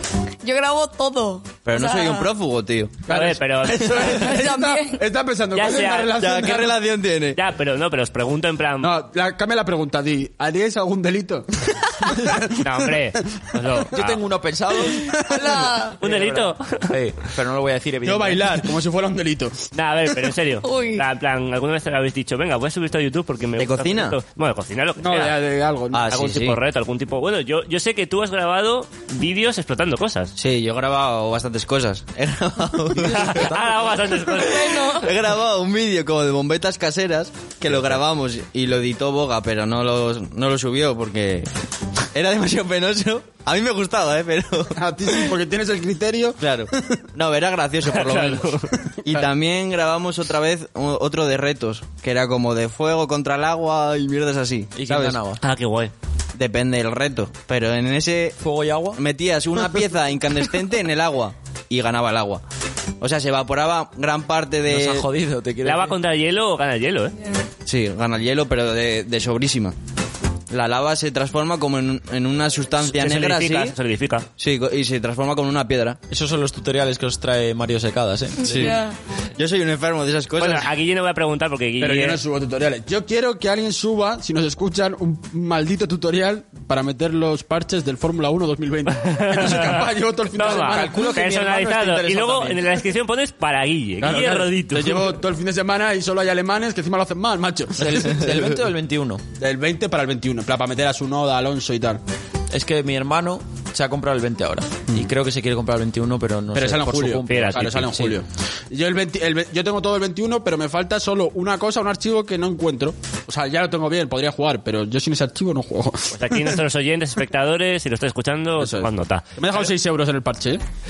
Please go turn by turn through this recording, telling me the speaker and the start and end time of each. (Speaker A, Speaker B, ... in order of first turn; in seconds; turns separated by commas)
Speaker A: 0.4-2.3, Speaker B: 1.6-3.0, Speaker C: 3.1-6.8, Speaker D: 3.1-4.3, Speaker A: 4.1-5.0, Speaker D: 5.5-6.2, Speaker B: 6.2-7.4, Speaker D: 7.3-8.9, Speaker C: 8.8-13.0, Speaker D: 12.6-14.2, Speaker E: 13.9-15.2, Speaker C: 15.1-15.6, Speaker A: 15.2-16.0, Speaker D: 16.0-16.9, Speaker E: 16.0-18.5, Speaker C: 18.0-19.6, Speaker D: 19.7-25.4, Speaker A: 20.6-21.0, Speaker B: 23.6-24.2, Speaker C: 25.0-26.2, Speaker B: 25.9-26.6, Speaker D: 26.1-30.3, Speaker B: 30.4-33.5, Speaker E: 32.9-34.2, Speaker D: 33.0-35.1, Speaker A: 34.3-35.1, Speaker B: 34.9-41.5, Speaker B: 42.1-45.3, Speaker C: 44.7-47.0, Speaker B: 46.4-55.2, Speaker D: 47.9-48.7, Speaker E: 54.8-55.4, Speaker D: 55.4-55.9, Speaker B: 56.3-58.4, Speaker E: 58.4-59.0, Speaker B: 58.9-62.4, Speaker B: 63.0-65.1, Speaker E: 64.7-66.0, Speaker D: 65.6-67.1, Speaker B: 67.7-69.8, Speaker B: 70.5-73.7, Speaker D: 72.8-74.3, Speaker B: 74.4-76.0, Speaker E: 76.1-78.7, Speaker A: 78.4-79.0, Speaker B: 78.4-78.8, Speaker B: 79.3-80.7, Speaker D: 80.4-82.2, Speaker C: 81.8-91.1, Speaker D: 88.9-95.2, Speaker E: 90.4-92.7, Speaker C: 94.0-98.4, Speaker E: 97.8-99.2, Speaker C: 99.4-102.0, Speaker E: 102.5-108.2, Speaker C: 106.5-116.6, Speaker D: 107.3-107.7, Speaker D: 116.2-119.7, Speaker C: 118.6-120.6